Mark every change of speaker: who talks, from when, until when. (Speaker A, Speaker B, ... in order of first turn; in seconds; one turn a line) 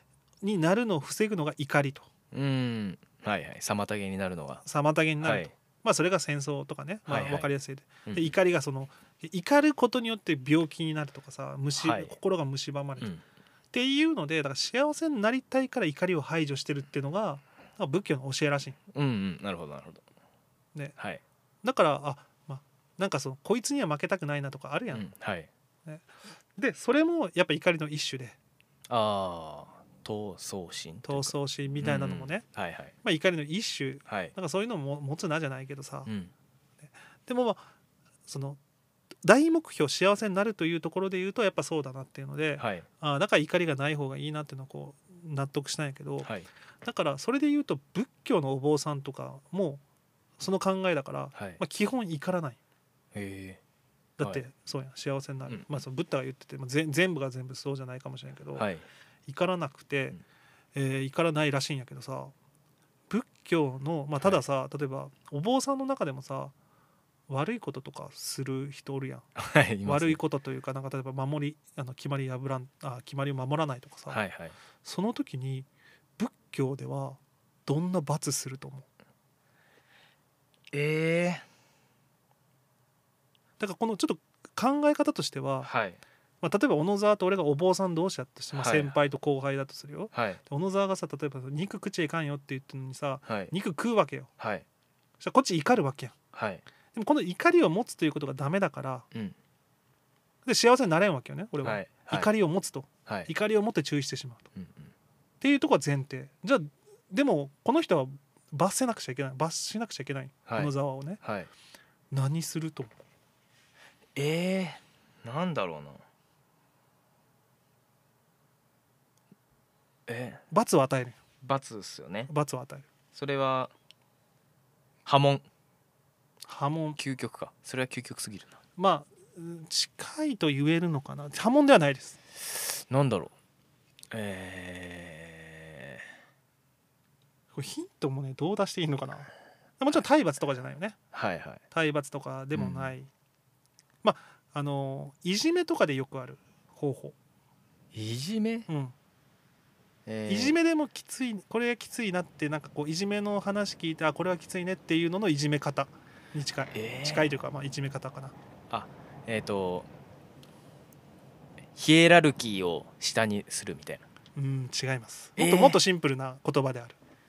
Speaker A: 0.4-2.1
Speaker B: 2.3-4.6
Speaker A: 4.6-13.1
Speaker B: 5.2-5.5
Speaker B: 7.1-7.5
Speaker B: 8.1-8.3
Speaker B: 11.8-12.1
Speaker A: 13.7-18.8
Speaker B: 18.9-20.1
Speaker B: 21.0-21.2
Speaker A: 21.6-25.1
Speaker B: 24.9-25.5
Speaker A: 25.9-28.4
Speaker B: 28.9-32.9
Speaker A: 31.0-32.4
Speaker A: 33.0-36.1
Speaker B: 34.1-34.3
Speaker B: 36.0-36.3
Speaker A: 36.8-37.7
Speaker A: 38.3-38.6
Speaker A: 39.2-46.3
Speaker B: 42.6-42.9
Speaker B: 46.2-46.5
Speaker A: 46.8-49.8
Speaker A: 50.4-52.6
Speaker B: 51.3-51.6
Speaker B: 53.1-53.6
Speaker A: 54.2-58.7
Speaker B: 55.5-55.8
Speaker B: 58.5-58.9
Speaker A: 59.3-60.2
Speaker A: 60.8-62.3
Speaker A: 63.1-66.5
Speaker A: 67.3-69.3
Speaker B: 69.4-70.2
Speaker A: 69.8-74.2
Speaker B: 74.1-74.5
Speaker A: 74.8-78.9
Speaker B: 80.7-81.5
Speaker A: 83.6-85.7
Speaker B: 85.6-86.0
Speaker A: 86.4-94.3
Speaker B: 88.5-88.9
Speaker B: 90.1-90.4
Speaker B: 93.2-93.5
Speaker B: 94.4-94.6
Speaker A: 95.2-96.2
Speaker B: 96.3-96.6
Speaker A: 96.9-99.0
Speaker A: 100.5-104.5
Speaker B: 101.6-102.3
Speaker B: 104.5-104.9
Speaker A: 105.4-111.2
Speaker B: 110.5-111.5
Speaker A: 112.1-112.9
Speaker B: 114.1-116.0
Speaker B: 120.1-120.4
Speaker A: 120.5-121.2
Speaker B: 121.4-122.3
Speaker A: 122.3-122.9
Speaker B: 123.1-123.7
Speaker B: 125.0-125.4
Speaker A: 126.5-127.0
Speaker B: 127.0-128.6
Speaker A: 128.8-132.2
Speaker B: 132.4-133.3
Speaker B: 134.1-136.1
Speaker A: 137.5-141.0
Speaker B: 141.1-141.6
Speaker A: 141.7-143.1
Speaker B: 142.5-142.9
Speaker A: 144.0-147.1
Speaker B: 147.9-148.7
Speaker A: 148.7-148.9
Speaker B: 150.1-150.6
Speaker A: 150.3-158.3
Speaker B: 156.7-157.3
Speaker B: 158.7-159.9
Speaker B: 161.7-164.0
Speaker A: 164.4-167.0
Speaker B: 165.4-165.8